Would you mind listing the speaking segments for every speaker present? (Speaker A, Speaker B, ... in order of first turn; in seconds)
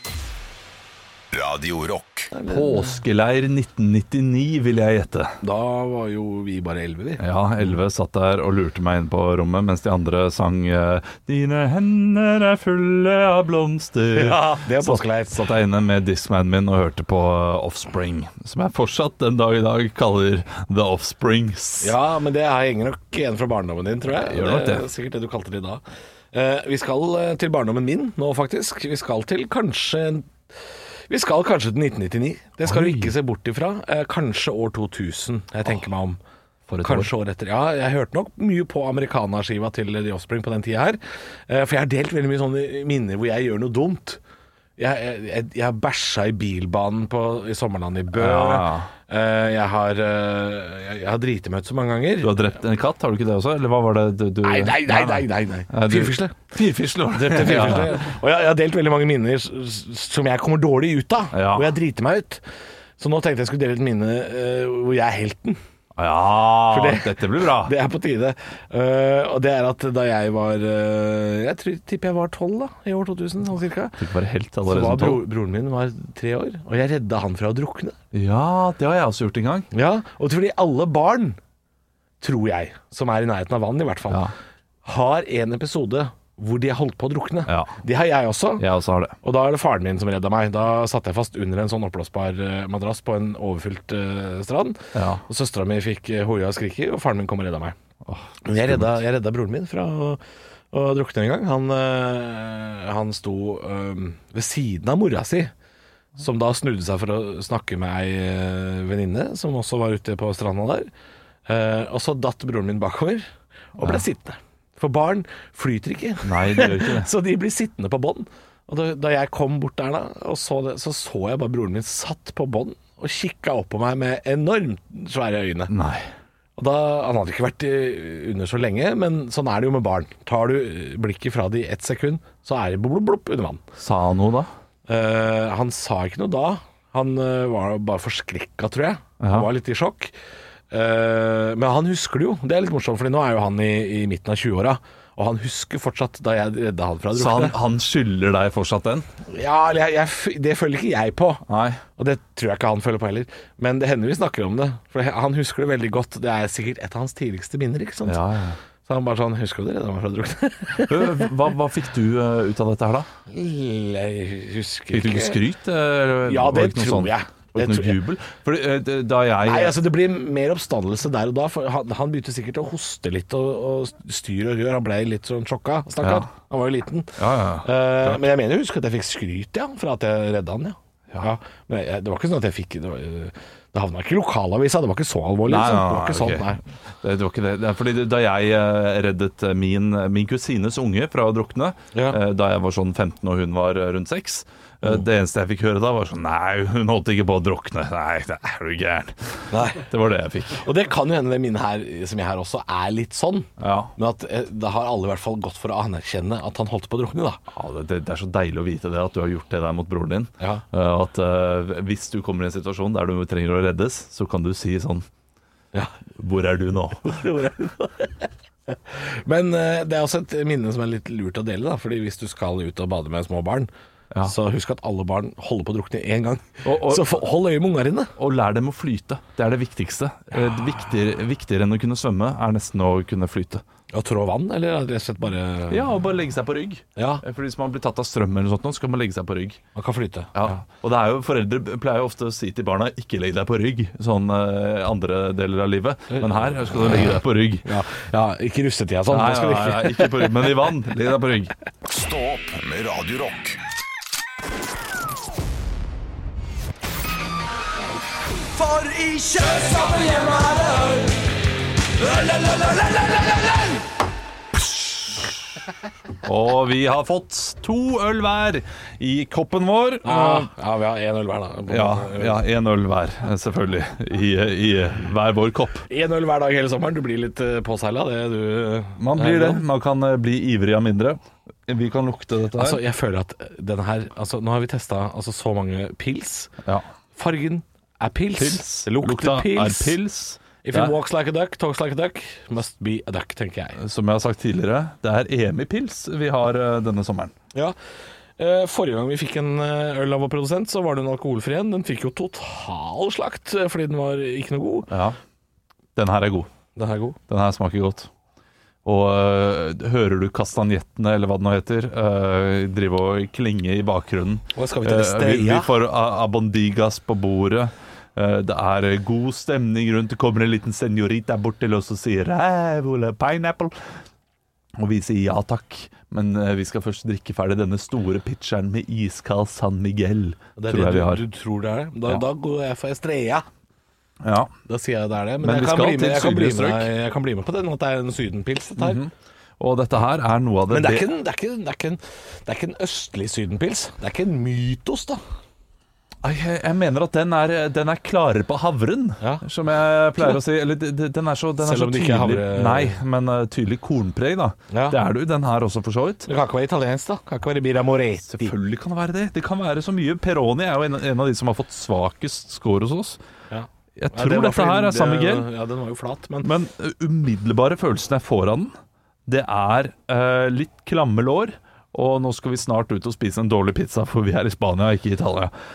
Speaker A: 1.3-2.3, 251.9-253.6
Speaker B: 2.3-3.0, 5.4-7.2, 14.1-15.5, 21.8-30.3, 31.1-36.2, 36.8-44.2, 44.8-52.3, 54.4-56.4, 57.1-62.4, 63.0-65.6, 66.7-74.0, 74.6-78.0, 79.7-81.4, 82.2-84.2, 84.8-88.7, 89.2-97.7, 98.4-100.2, 100.7-105.5, 106.2-110.9, 111.5-113.2, 113.8-125.7, 126.6-133.6, 134.9-140.1, 140.7-147.6, 149.3-151.4, 152.0-158.2, 158.8-161.2, 163.3-165.4, 166.3-168.0, 169.4-186.6, 191.9-192.2, 199.5-199.8, 200.6-207.4, 217.0-223.7, 224.2-228.1, 233.9-235.8, 236.9-237.2, 239.7-240.6, 247.6-250.6, 258.8-260.9, 270.0-272.4, 275.9-279.6, 282.6-286.5, 287.1-289.9, 290.6-293.8, 298.4-304.9, 306.8-307.2, 314.5-315.7, 330.6-333.4, 334.7-339.0, 340.7-345.2, 349.2-349.4, 351.6-353.0, 354.7-355.0, 356.2-358.5, 363.5-366.5
Speaker C: 2.5-5.3, 7.2-21.9, 24.1-24.9, 32.6-33.1, 36.7-37.1, 48.1-48.9, 52.2-58.0, 61.3-61.7, 65.9-67.7, 74.0-75.2, 78.1-79.7, 87.5-87.7, 88.6-89.1, 94.9-95.2, 98.0-99.0, 116.2-117.1, 125.7-126.1, 133.8-134.5, 139.2-139.5, 147.1-149.1, 151.5-151.8, 158.0-158.6, 160.8-163.1, 164.9-169.8, 176.0-176.3, 177.2-178.2, 185.5-200.7, 203.6-203.9, 207.5-215.1, 216.2-217.2, 226.6-227.2, 228.2-233.6, 235.7-239.6, 240.3-247.7, 249.1-251.5, 266.2-270.5, 271.7-275.9, 279.0-282.8, 288.4-290.9, 293.8-297.3, 304.9-305.1, 305.9-306.5, 307.3-308.1, 308.8-323.7, 324.8-331.2, 334.2-334.5, 335.4-336.9, 338.8-341.1, 346.2-356.3, 358.3-363.2, 363.9-365.5, 366.4-368.8, 369.3-375.5